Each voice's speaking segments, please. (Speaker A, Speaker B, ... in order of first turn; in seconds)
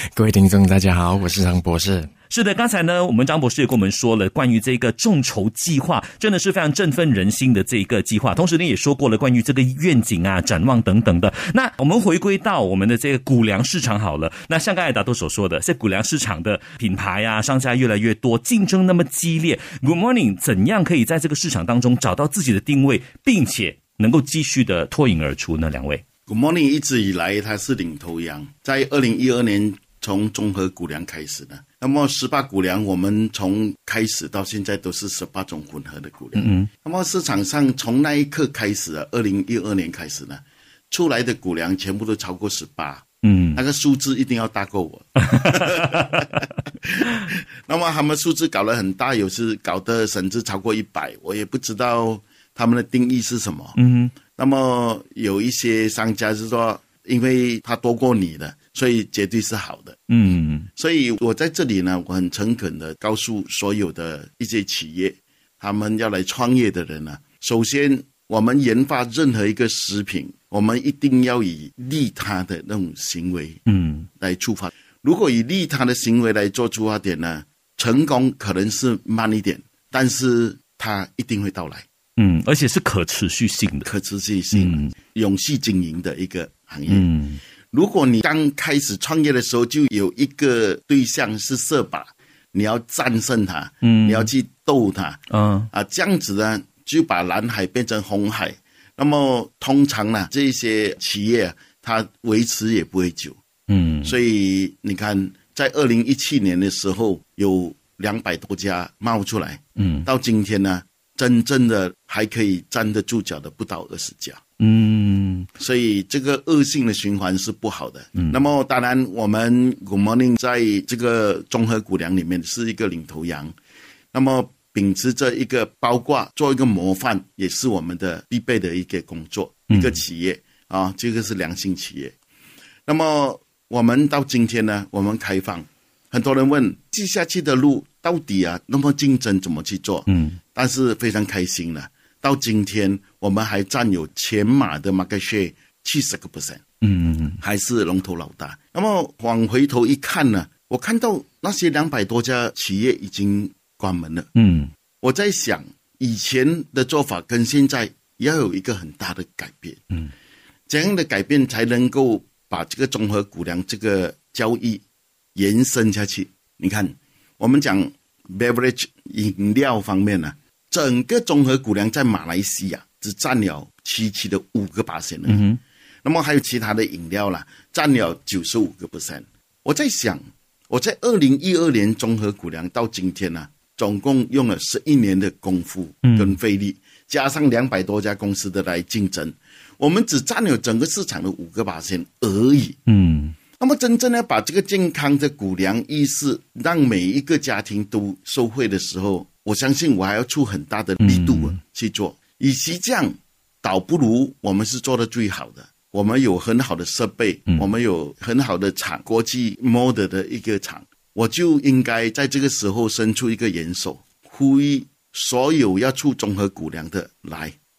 Speaker A: 0.1-2.1
Speaker B: 2.3-26.0, 36.4-36.7, 43.2-43.6, 45.2-46.3, 53.8-54.1, 60.1-60.7, 73.7-74.1, 82.2-83.9, 84.5-84.9, 86.9-87.4, 93.8-94.3, 95.3-95.7, 103.7-104.1, 109.8-110.1, 114.6-115.5, 129.7-130.0, 140.1-140.4, 146.8-147.4, 154.3-154.7, 175.3-175.6, 186.1-186.4, 192.9-193.4, 201.0-201.6
Speaker C: 26.3-53.8, 54.4-60.0, 60.8-73.6, 74.2-81.9, 83.9-87.1, 87.7-95.2, 95.7-103.4, 104.0-114.4, 115.6-123.5, 124.1-132.2, 132.9-146.6, 147.4-154.3, 155.0-159.8, 160.7-164.8, 165.4-175.5, 176.0-192.8, 193.6-217.6